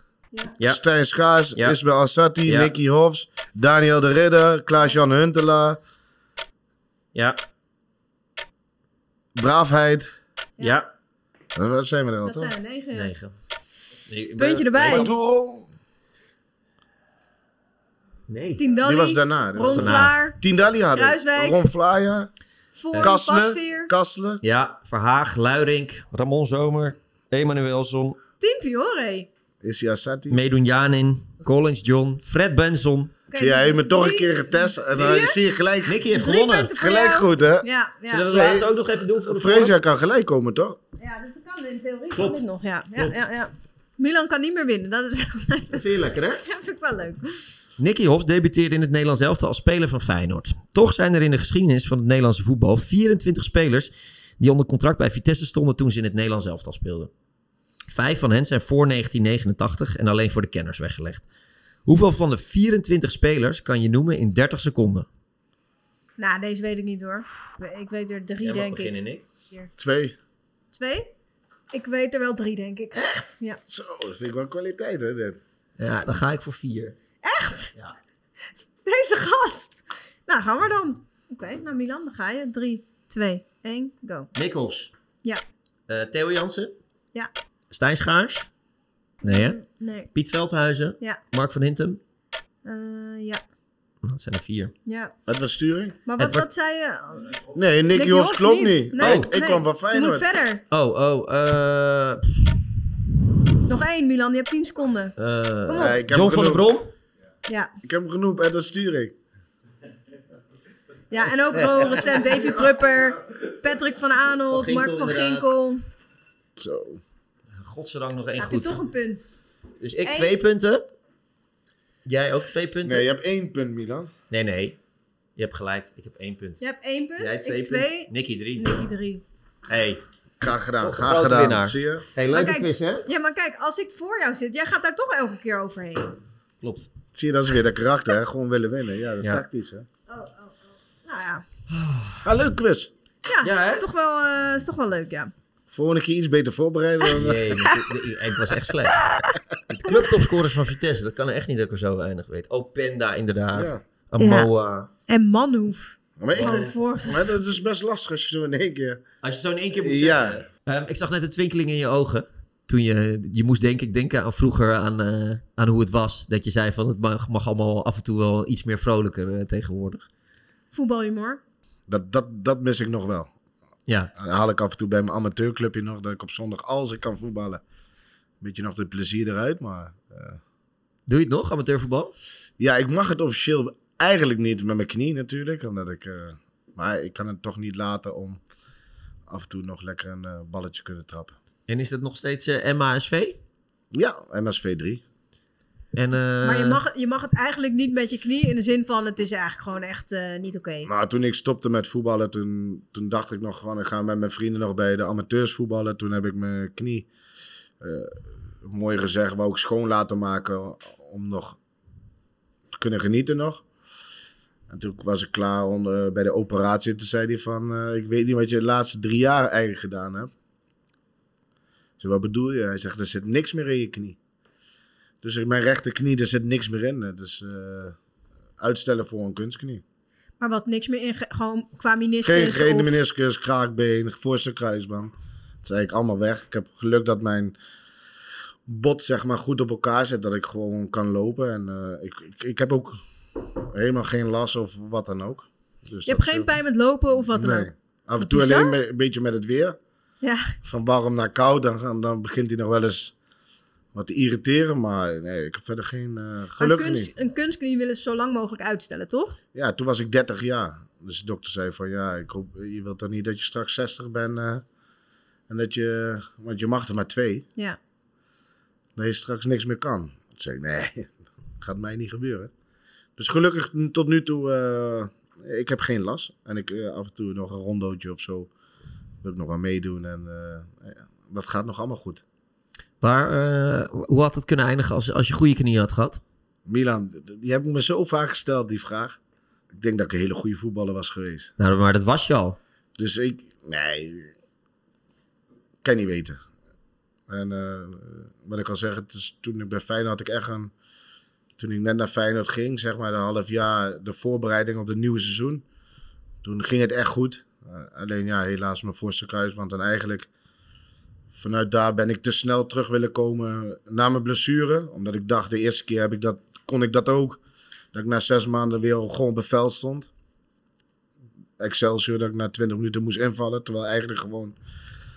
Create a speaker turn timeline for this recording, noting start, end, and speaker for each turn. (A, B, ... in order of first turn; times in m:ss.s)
0:00.6-0:05.8 A
0:02.4-0:02.7 B
0:09.4-0:10.1 A
0:10.6-0:10.9 B
0:11.6-0:12.5 A
0:12.2-0:13.1 C
0:12.9-0:13.3 B
0:14.0-0:15.1 B
0:14.4-0:15.1 C
0:14.8-0:15.7 A
0:18.3-0:18.6 B
0:18.6-0:20.4 C
0:18.8-0:22.3 A
0:19.6-0:20.1 B
0:20.9-0:21.6 C
0:22.8-0:23.9 C
0:23.0-0:24.4 A
0:24.4-0:28.2 B
0:28.4-0:29.3 C
0:29.6-0:30.4 A
0:30.3-0:33.1 B
0:33.3-0:35.4 C
0:33.4-0:36.0 A
0:35.8-0:36.7 B
0:36.1-0:38.3 C
0:36.8-0:37.6 A
0:38.1-0:39.7 B
0:38.3-0:38.7 A
0:39.2-0:40.8 A
0:41.0-0:45.8 C
0:42.2-0:42.4 B
0:43.0-0:43.2 B
0:45.7-0:46.4 B
0:46.4-0:47.5 C
0:47.8-0:57.1 B
0:57.9-1:01.3 B
1:01.9-1:05.1 B
1:06.2-1:09.0 C
1:08.4-1:09.2 B
1:09.8-1:10.2 A
1:10.7-1:11.1 C
1:11.7-1:13.6 C
1:13.0-1:13.3 B
1:13.7-1:15.4 A
1:15.8-1:17.0 B
1:17.2-1:17.7 C
1:18.8-1:24.3 C
1:24.4-1:24.9 B
1:25.9-1:26.7 B
1:27.7-1:28.5 B
1:29.2-1:30.1 C
1:29.2-1:29.6 B
1:30.1-1:32.0 B
1:32.6-1:33.4 C
1:34.0-1:34.7 B
1:34.9-1:35.1 C
1:35.3-1:36.0 A
1:36.1-1:37.4 C
1:36.2-1:36.4 B
1:37.5-1:40.3 A
1:37.9-1:40.6 C
1:39.0-1:39.3 B
1:40.7-1:42.6 B
1:43.7-1:45.2 C
1:45.2-1:46.9 B
1:45.7-1:46.0 C
1:45.7-1:46.7 A
1:47.8-1:49.2 A
1:51.1-1:55.8 C
1:54.5-1:55.5 B
1:56.6-1:57.0 A
1:57.6-1:58.8 B
1:58.4-1:59.3 C
1:59.8-2:00.8 B
2:00.0-2:00.3 C
2:02.0-2:03.0 B
2:02.8-2:04.1 A
2:04.3-2:04.8 B
2:05.4-2:06.6 B
2:06.6-2:09.2 C
2:07.2-2:08.7 B
2:09.7-2:10.0 B
2:10.4-2:12.1 A
2:10.8-2:13.1 B
2:12.3-2:16.2 C
2:16.6-2:16.9 B
2:17.2-2:19.9 A
2:20.1-2:21.4 C
2:21.7-2:22.2 B
2:22.2-2:22.9 A
2:23.3-2:25.3 C
2:23.4-2:23.8 B
2:25.7-2:27.7 A
2:27.1-2:29.1 B
2:27.6-2:27.9 C
2:29.7-2:34.9 B
2:33.5-2:33.8 A
2:34.2-2:34.5 C
2:35.1-2:37.3 C
2:36.2-2:39.0 A
2:36.3-2:36.7 B
2:39.2-2:50.1 B
2:39.8-2:40.4 A
2:50.7-2:51.4 C
2:51.9-2:53.3 A
2:54.2-2:57.6 A
2:58.4-3:00.4 A
3:01.1-3:02.1 B
3:02.6-3:08.4 A
3:09.3-3:11.4 A
3:11.7-3:13.4 B
3:13.9-3:15.0 A
3:15.9-3:16.8 B
3:16.4-3:20.9 C
3:20.8-3:27.1 A
3:27.8-3:31.6 A
3:32.7-3:33.6 A
3:34.7-3:40.3 A
3:42.0-3:44.2 A
3:45.2-3:48.0 A
3:48.6-3:49.8 A
3:50.4-3:53.0 C
3:52.2-3:55.1 A
3:55.6-3:57.6 A
3:58.7-4:06.5 A
4:06.1-4:08.8 C
4:07.3-4:09.8 A
4:10.2-4:10.6 C
4:10.6-4:13.1 A
4:13.9-4:17.1 A
4:16.6-4:19.4 C
4:19.5-4:24.6 A
4:25.5-4:27.5 A
4:29.0-4:32.5 A
4:33.2-4:38.5 A
4:39.2-4:42.2 A
4:43.0-4:46.2 B
4:46.7-4:49.2 A
4:49.7-4:51.5 A
4:51.6-4:52.6 B
4:53.0-4:54.3 A
4:55.8-4:56.4 A
4:57.3-5:00.7 A
5:01.6-5:05.6 A
5:06.4-5:10.3 A
5:11.3-5:17.4 A
5:17.9-5:20.1 A
5:21.6-5:24.6 A